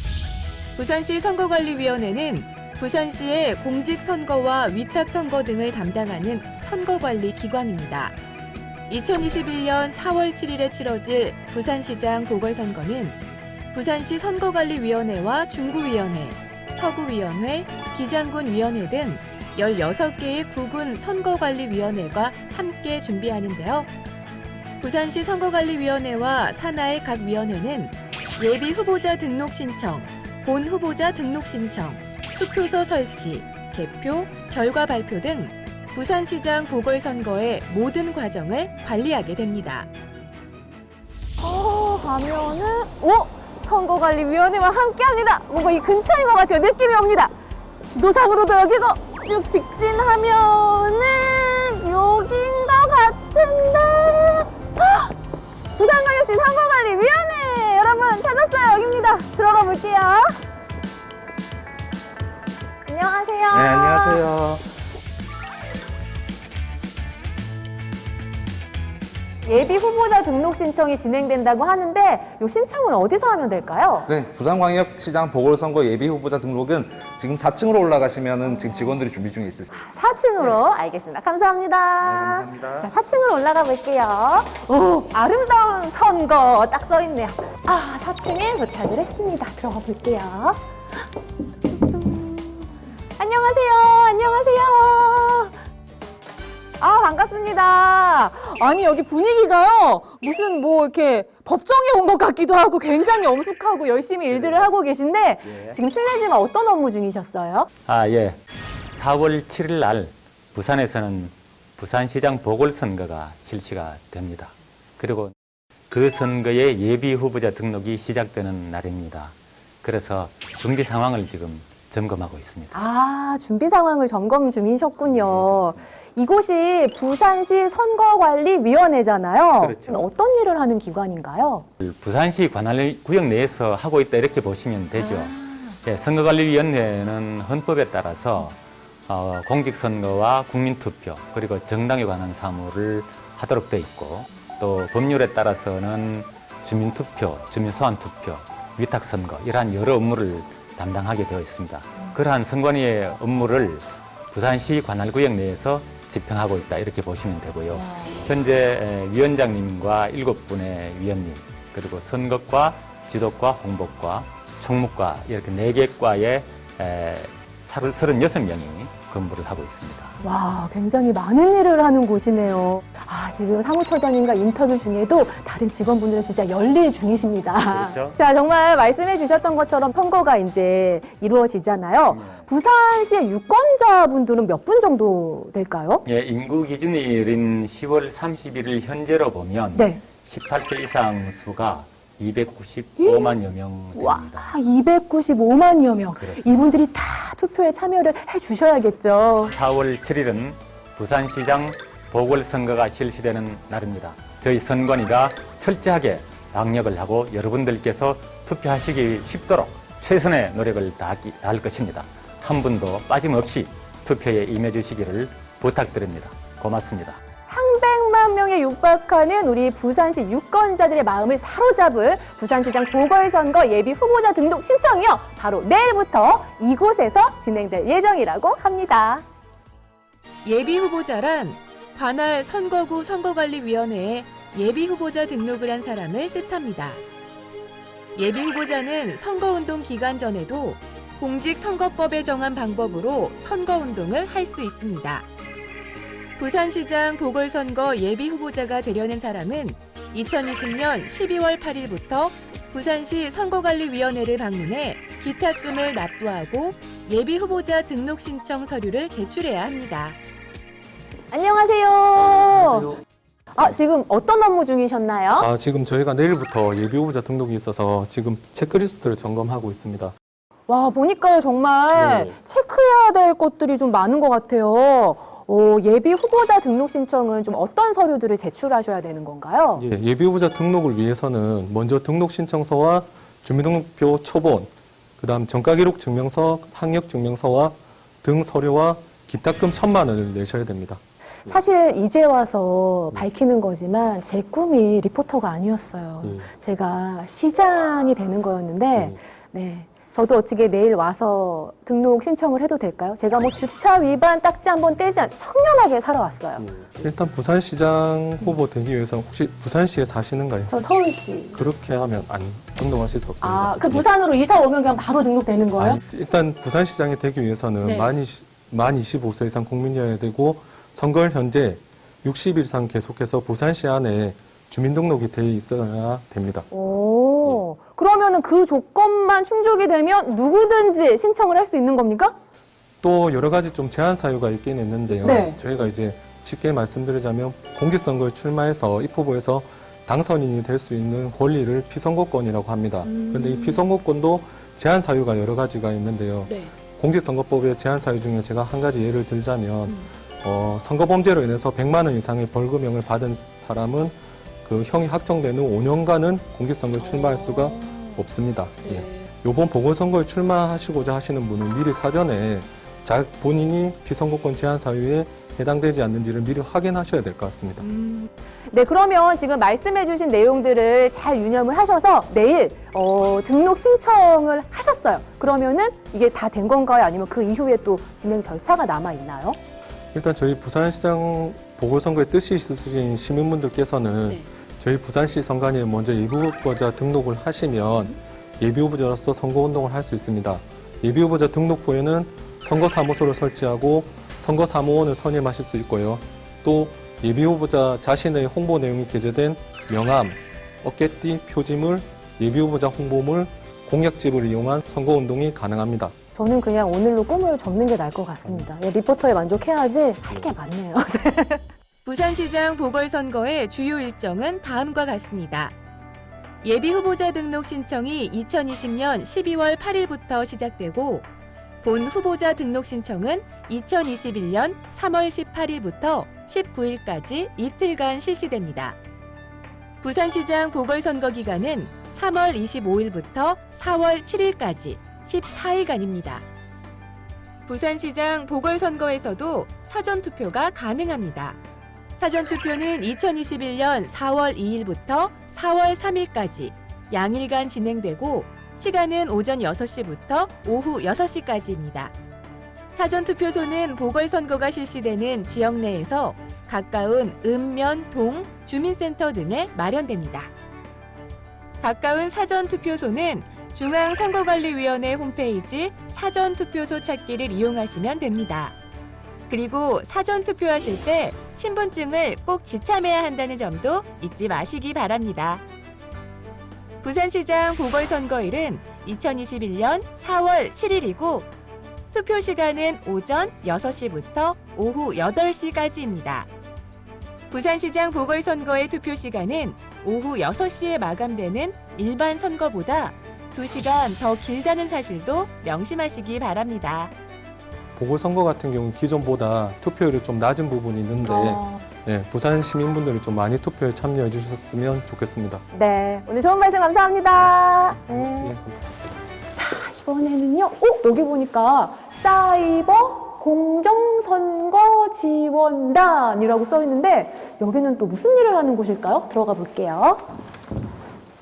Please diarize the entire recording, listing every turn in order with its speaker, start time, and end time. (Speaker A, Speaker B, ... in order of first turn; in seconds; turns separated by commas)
Speaker A: 0.8-8.2, Speaker A: 8.9-13.2, Speaker A: 13.7-23.9, Speaker A: 24.8-39.9, Speaker B: 41.4-55.1, Speaker B: 55.8-60.4, Speaker B: 62.9-64.2, Speaker C: 63.5-64.6, Speaker B: 69.5-74.1, Speaker C: 74.1-79.9, Speaker B: 79.8-90.6, Speaker C: 82.0-82.9, Speaker B: 91.7-95.5, Speaker B: 96.8-107.7, Speaker D: 104.3-104.7, Speaker D: 105.4-105.8, Speaker D: 107.9-108.4, Speaker D: 109.0-115.3, Speaker D: 115.9-122.8, Speaker B: 122.7-131.7, Speaker D: 125.0-125.8, Speaker D: 129.6-130.0, Speaker D: 131.8-170.2, Speaker B: 170.2-186.0, Speaker D: 177.7-178.2, Speaker D: 182.1-182.5, Speaker D: 186.1-194.5, Speaker B: 189.8-190.0, Speaker B: 193.0-193.4, Speaker B: 193.9-199.5, Speaker D: 196.2-196.5, Speaker D: 199.5-217.2, Speaker B: 217.5-229.2, Speaker A: 230.4-237.0, Speaker A: 238.2-245.2, Speaker A: 246.4-260.2, Speaker B: 261.3-263.0, Speaker B: 263.6-265.5, Speaker E: 265.4-270.1, Speaker B: 270.7-279.9, Speaker E: 271.9-272.4, Speaker E: 279.8-291.6, Speaker B: 291.5-306.7, Speaker E: 296.2-296.5, Speaker E: 306.6-310.8, Speaker B: 310.7-311.6, Speaker E: 311.5-314.1, Speaker B: 313.4-316.0, Speaker E: 315.8-326.7, Speaker B: 317.8-318.1, Speaker B: 326.7-332.4, Speaker E: 333.0-367.9, Speaker B: 335.2-335.6, Speaker B: 343.1-343.8, Speaker B: 357.0-357.7, Speaker B: 358.8-359.2, Speaker B: 367.9-379.6, Speaker E: 380.1-406.1, Speaker B: 406.4-411.6, Speaker A: 412.1-415.7, Speaker A: 416.6-421.3, Speaker A: 421.8-429.0, Speaker A: 430.0-436.4, Speaker A: 437.7-441.6, Speaker A: 442.2-452.1, Speaker A: 452.9-460.5, Speaker A: 461.8-468.8, Speaker A: 469.5-475.6, Speaker A: 477.0-481.5, Speaker A: 482.1-486.5, Speaker A: 487.5-497.1, Speaker E: 498.0-505.6, Speaker B: 501.2-501.8, Speaker B: 505.7-508.6, Speaker E: 508.1-508.8, Speaker B: 509.6-520.2